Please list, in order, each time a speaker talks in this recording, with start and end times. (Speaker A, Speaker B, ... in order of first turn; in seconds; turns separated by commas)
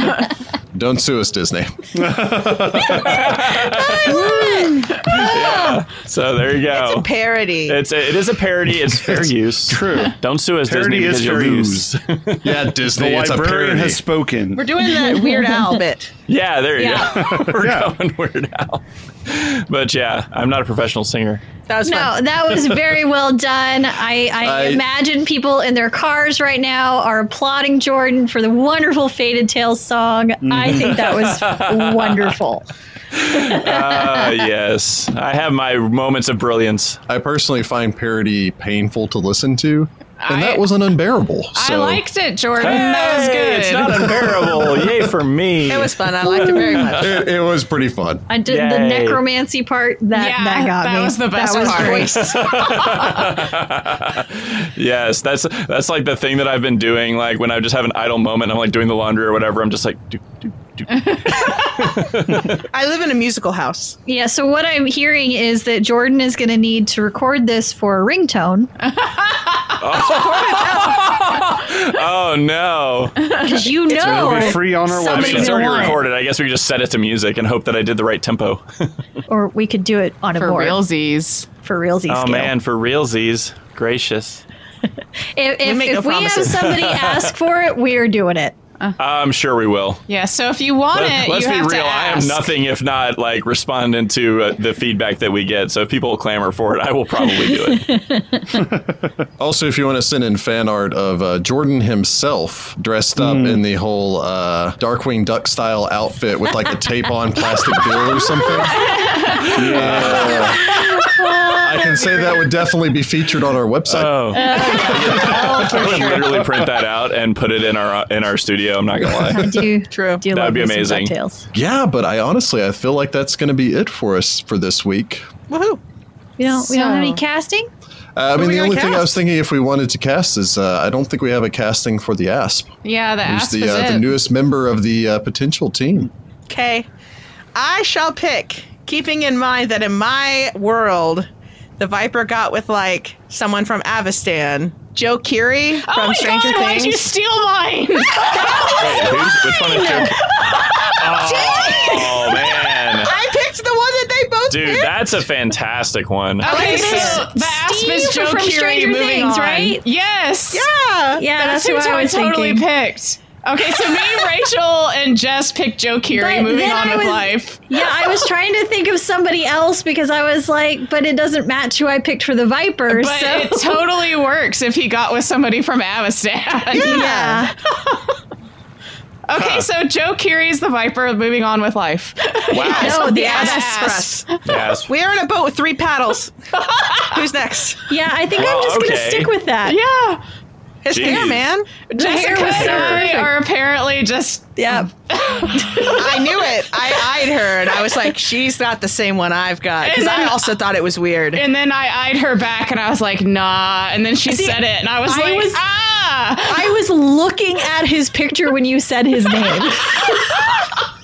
Speaker A: 0.7-1.7, Speaker B: 1.9-3.3, Speaker C: 2.7-7.1, Speaker D: 3.7-4.8, Speaker E: 4.0-5.8, Speaker D: 6.7-7.8, Speaker C: 7.7-12.5, Speaker B: 9.7-11.9, Speaker A: 12.4-14.0, Speaker B: 12.9-14.7, Speaker D: 14.5-16.1, Speaker E: 14.8-15.8, Speaker C: 16.3-21.4, Speaker E: 16.8-17.1, Speaker B: 17.0-17.9, Speaker D: 21.7-22.7, Speaker E: 21.8-32.6, Speaker A: 24.4-24.8, Speaker B: 30.4-31.1, Speaker C: 31.0-32.3, Speaker C: 33.1-37.0, Speaker E: 33.3-34.3, Speaker A: 37.1-42.0, Speaker F: 40.2-40.6, Speaker F: 41.5-44.3, Speaker C: 42.6-47.1, Speaker D: 45.7-47.2, Speaker A: 46.9-48.2, Speaker E: 48.3-52.3, Speaker C: 48.5-49.2, Speaker F: 50.1-53.2, Speaker D: 51.5-52.6, Speaker C: 52.1-62.6, Speaker F: 61.1-61.5, Speaker D: 62.7-64.0, Speaker E: 64.0-68.7, Speaker F: 69.0-69.7, Speaker C: 69.8-73.3, Speaker D: 70.1-71.2, Speaker F: 73.2-73.9, Speaker E: 73.4-76.0, Speaker B: 74.0-76.0, Speaker C: 74.0-78.9, Speaker E: 79.3-80.8, Speaker F: 80.3-81.5, Speaker E: 81.6-82.5, Speaker C: 82.1-84.4, Speaker E: 85.3-88.5, Speaker D: 85.6-86.7, Speaker C: 86.6-87.3, Speaker C: 89.0-90.0, Speaker F: 90.1-92.5, Speaker C: 90.9-97.9, Speaker E: 97.5-98.5, Speaker B: 98.5-98.8, Speaker A: 99.4-108.9, Speaker B: 103.2-103.6, Speaker B: 109.5-110.5, Speaker C: 109.7-110.3, Speaker A: 109.7-110.6, Speaker E: 110.9-112.3, Speaker A: 111.5-116.1, Speaker C: 113.8-119.6, Speaker E: 114.3-116.2, Speaker D: 114.9-115.8, Speaker B: 115.5-116.6, Speaker A: 119.1-119.7, Speaker E: 119.3-121.5, Speaker D: 119.9-120.2, Speaker C: 120.3-121.1, Speaker A: 121.5-125.3, Speaker D: 125.5-125.8, Speaker E: 126.4-127.7, Speaker F: 126.5-127.2, Speaker A: 128.2-132.7, Speaker D: 128.3-129.1, Speaker F: 132.8-134.1, Speaker A: 133.2-136.1, Speaker D: 136.5-136.9, Speaker D: 137.5-141.3, Speaker D: 141.8-147.1, Speaker F: 145.8-153.1, Speaker E: 148.6-148.8, Speaker C: 148.7-150.2, Speaker E: 149.6-150.1, Speaker C: 150.9-153.1, Speaker D: 151.1-152.1, Speaker E: 151.3-151.6, Speaker D: 153.0-155.1, Speaker C: 154.5-156.6, Speaker F: 156.4-160.7, Speaker D: 156.4-157.2, Speaker E: 156.4-159.8, Speaker D: 160.5-161.3, Speaker E: 161.2-162.7, Speaker F: 161.3-167.9, Speaker E: 166.1-173.8, Speaker F: 172.9-177.2, Speaker D: 176.7-177.4, Speaker E: 176.8-177.6, Speaker F: 177.7-178.1, Speaker F: 179.3-184.2, Speaker C: 179.3-179.7, Speaker C: 182.5-183.0, Speaker D: 182.6-184.3, Speaker E: 182.7-184.0, Speaker C: 184.4-184.9, Speaker D: 184.9-186.3, Speaker F: 186.7-187.0, Speaker D: 186.9-187.8, Speaker E: 187.9-189.8, Speaker C: 188.4-189.3, Speaker F: 189.6-190.2, Speaker D: 190.8-191.7, Speaker C: 190.9-191.4, Speaker F: 191.9-196.3, Speaker E: 191.9-193.3, Speaker E: 194.6-194.9, Speaker E: 195.5-196.0, Speaker D: 195.9-201.4, Speaker F: 199.8-200.4, Speaker F: 201.3-206.7, Speaker E: 204.3-205.6, Speaker E: 206.5-210.4